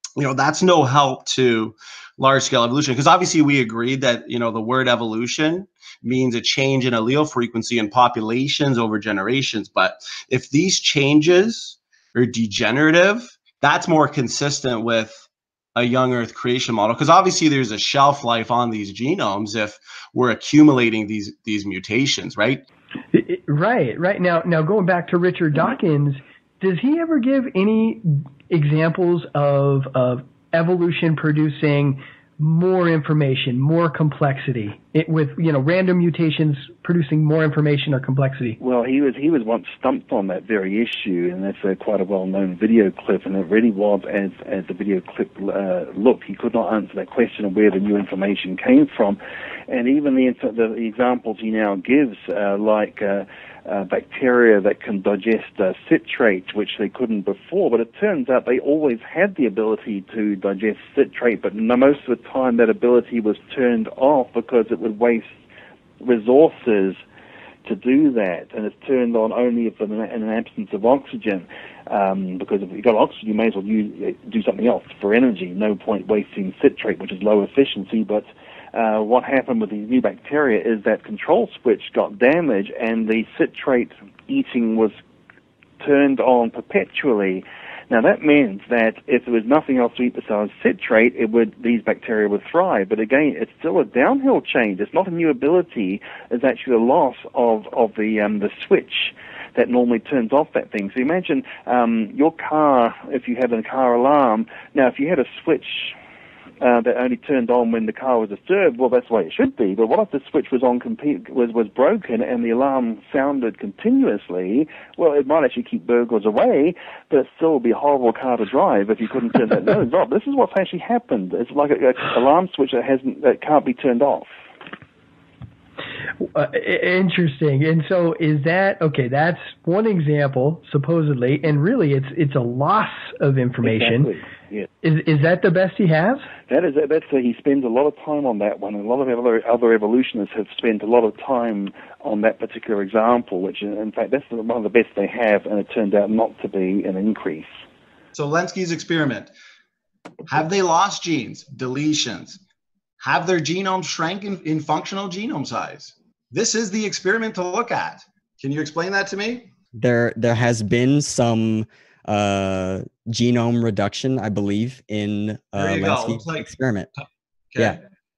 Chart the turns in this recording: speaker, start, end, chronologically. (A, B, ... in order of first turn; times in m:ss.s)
0:00.2-0:22.6 A
0:23.1-0:38.6 B
0:38.6-1:05.3 C
1:06.0-1:07.0 C
1:07.6-1:24.9 C
1:25.8-1:46.0 C
1:46.6-2:04.3 C
2:06.3-2:14.1 B
2:13.6-2:14.7 C
2:14.8-2:16.2 B
2:16.5-2:27.5 C
2:28.2-2:29.3 A
2:30.3-2:32.4 A
2:33.0-2:39.5 A
2:39.8-2:46.9 D
2:45.6-2:46.5 A